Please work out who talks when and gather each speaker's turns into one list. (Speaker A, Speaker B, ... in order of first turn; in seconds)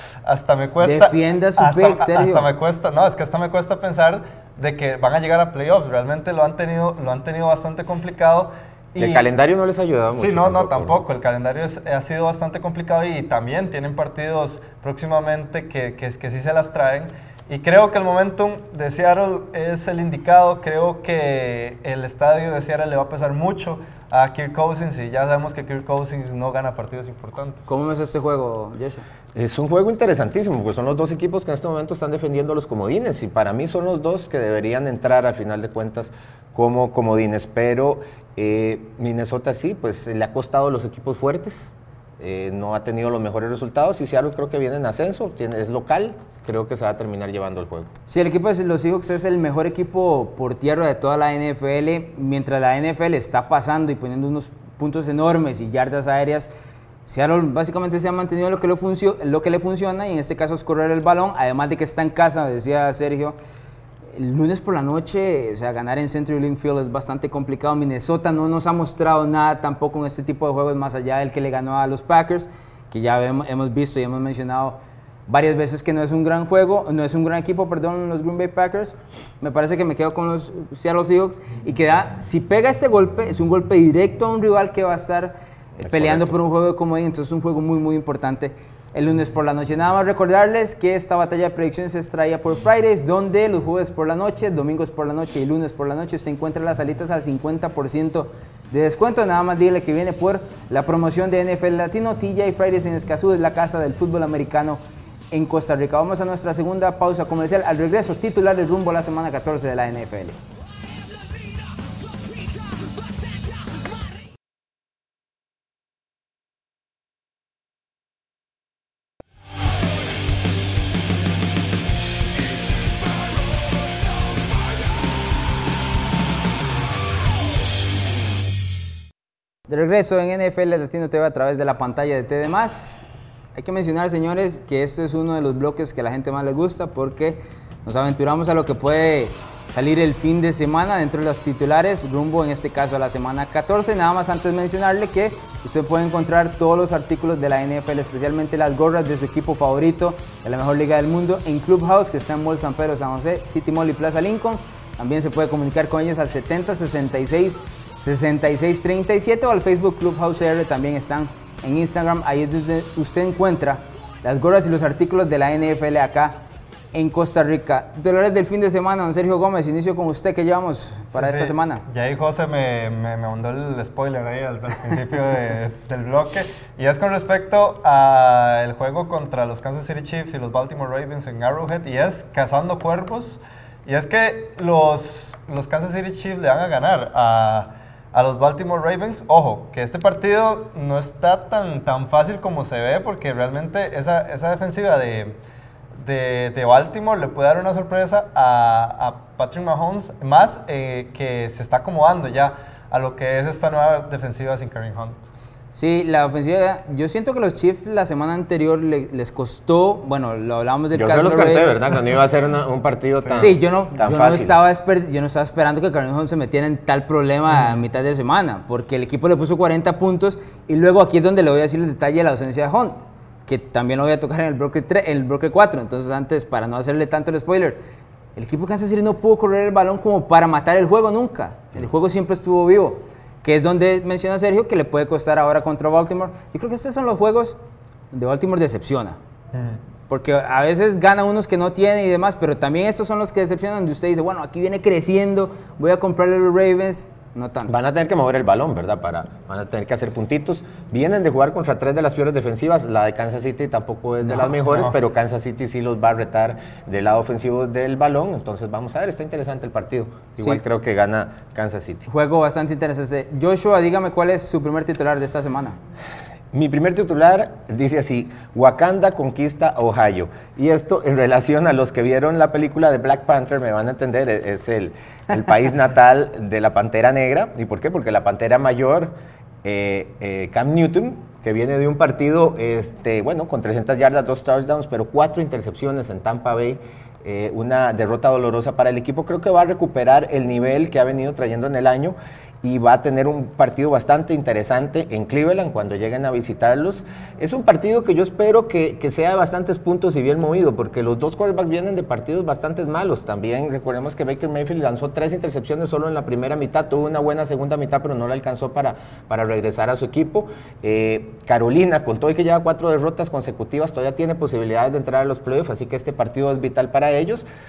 Speaker A: 0.2-9.3, 10.1-27.7, 171.1-195.4, 195.9-205.2, 239.5-239.8
Speaker B: 0.8-2.5, 27.7-29.0, 48.1-56.5, 57.0-63.4, 64.1-104.8, 105.3-110.4, 129.7-166.3, 166.9-171.8, 205.7-211.8, 213.3-227.8, 228.3-237.6, 238.1-239.2, 240.1-247.8, 254.2-254.7, 262.1-265.8
Speaker C: 9.0-11.0, 29.3-47.9, 85.8-86.3, 210.9-214.6, 247.7-262.1, 266.5-279.1, 279.6-317.4